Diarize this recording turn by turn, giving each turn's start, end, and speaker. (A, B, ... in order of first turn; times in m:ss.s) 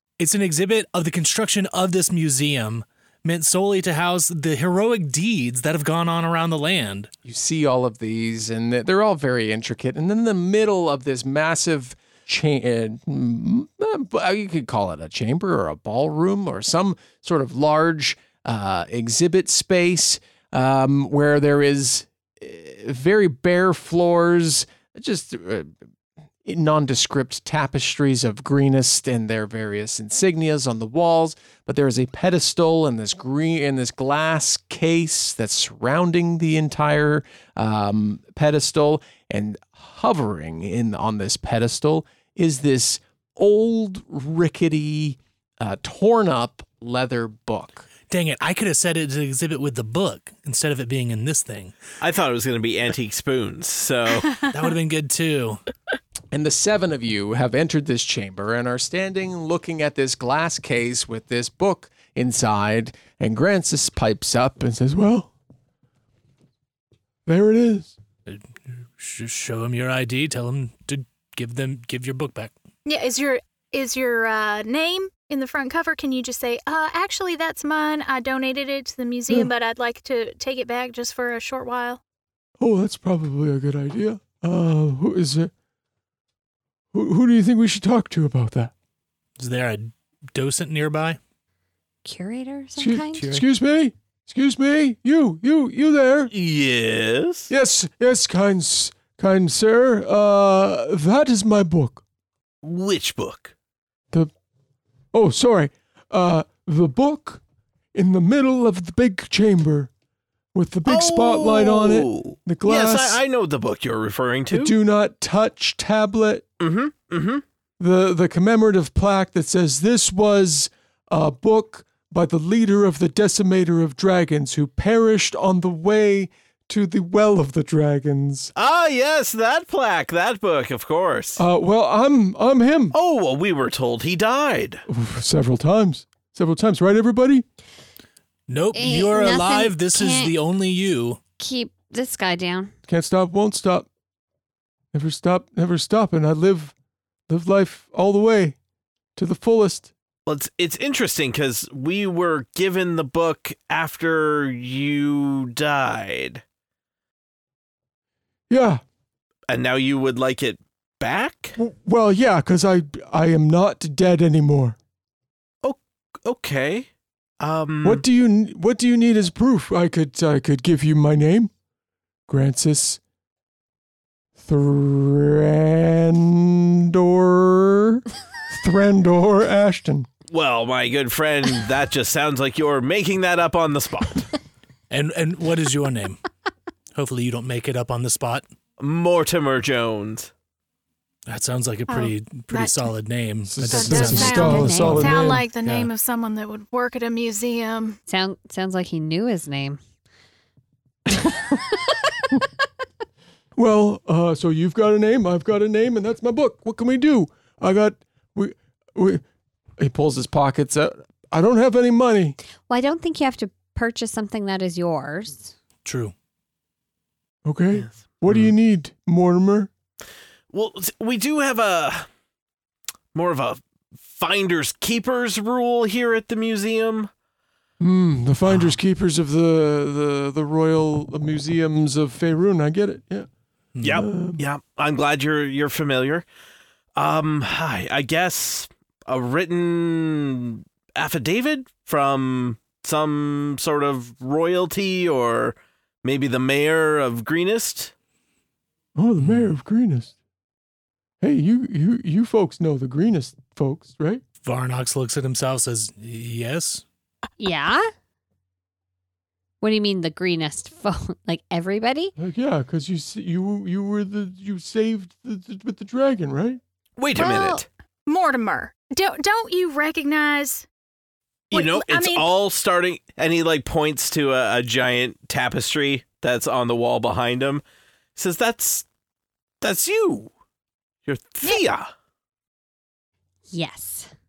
0:00.2-0:07.1 A
0:07.2-0:25.8 B
0:26.4-0:47.9 B
0:48.1-0:51.8 A
0:52.0-0:54.4 C
0:54.5-0:55.6 A
0:56.3-1:04.8 B
1:04.8-1:05.3 D
1:07.3-1:07.9 D
1:09.0-1:12.5 A
1:12.8-1:22.0 E
1:22.6-1:25.5 D
1:26.9-1:28.7 D
1:29.4-1:31.2 A
1:32.0-1:33.3 F
1:32.8-1:36.3 D
1:33.2-1:33.4 A
1:36.3-1:37.5 C
1:37.5-1:42.0 D
1:42.6-1:43.5 C
1:45.1-1:47.4 D
1:47.9-1:49.9 D
1:50.5-1:53.2 D
1:50.9-1:54.8 C
1:54.5-1:56.4 D
1:56.6-1:57.4 C
1:57.8-2:08.5 D
2:08.6-2:11.4 C
2:11.4-2:13.0 D
2:12.9-2:14.8 C
2:14.9-2:17.4 D
2:18.5-2:21.2 A
2:18.7-2:20.3 F
2:21.4-2:22.7 F
2:22.9-2:23.9 D
2:24.9-2:26.7 D
2:27.3-2:28.6 D
2:29.2-2:29.9 D
2:30.3-2:36.4 C
2:38.5-2:38.8 D
2:39.5-2:41.6 C
2:41.6-2:44.8 D
2:45.6-2:46.9 C
2:47.4-2:48.0 C
2:47.8-2:51.5 D
2:52.3-2:53.0 D
2:54.4-3:00.1 D
3:00.3-3:04.3 C
3:04.9-3:06.2 A
3:06.9-3:08.5 A
3:08.8-3:10.3 C
3:11.3-3:15.9 A
3:11.9-3:12.9 E
3:13.5-3:15.4 D
3:13.6-3:18.0 E
3:14.0-3:15.1 F
3:18.1-3:19.8 F
3:23.6-3:29.2 D
3:29.9-3:30.9 B
3:31.3-3:32.4 D
3:32.7-3:35.5 F
3:35.8-3:36.1 A
3:37.4-3:39.7 D
3:40.5-3:42.1 C
3:43.1-3:47.1 C
3:47.8-3:53.3 D
3:48.5-3:48.8 A
3:53.8-3:54.0 A
3:53.8-3:56.3 C
3:53.9-3:54.4 D
3:57.0-4:07.9 C
4:09.0-4:10.1 D
4:09.2-4:09.5 A
4:11.2-4:14.2 D
4:14.4-4:16.8 A
4:17.4-4:17.9 F
4:19.6-4:22.1 F
4:22.2-4:26.6 D
4:27.0-4:27.6 C
4:27.2-4:30.6 E
4:31.5-4:37.6 C
4:31.5-4:32.3 E
4:38.2-4:38.8 C
4:39.6-4:40.3 C
4:41.1-4:41.9 C
4:43.5-4:44.1 F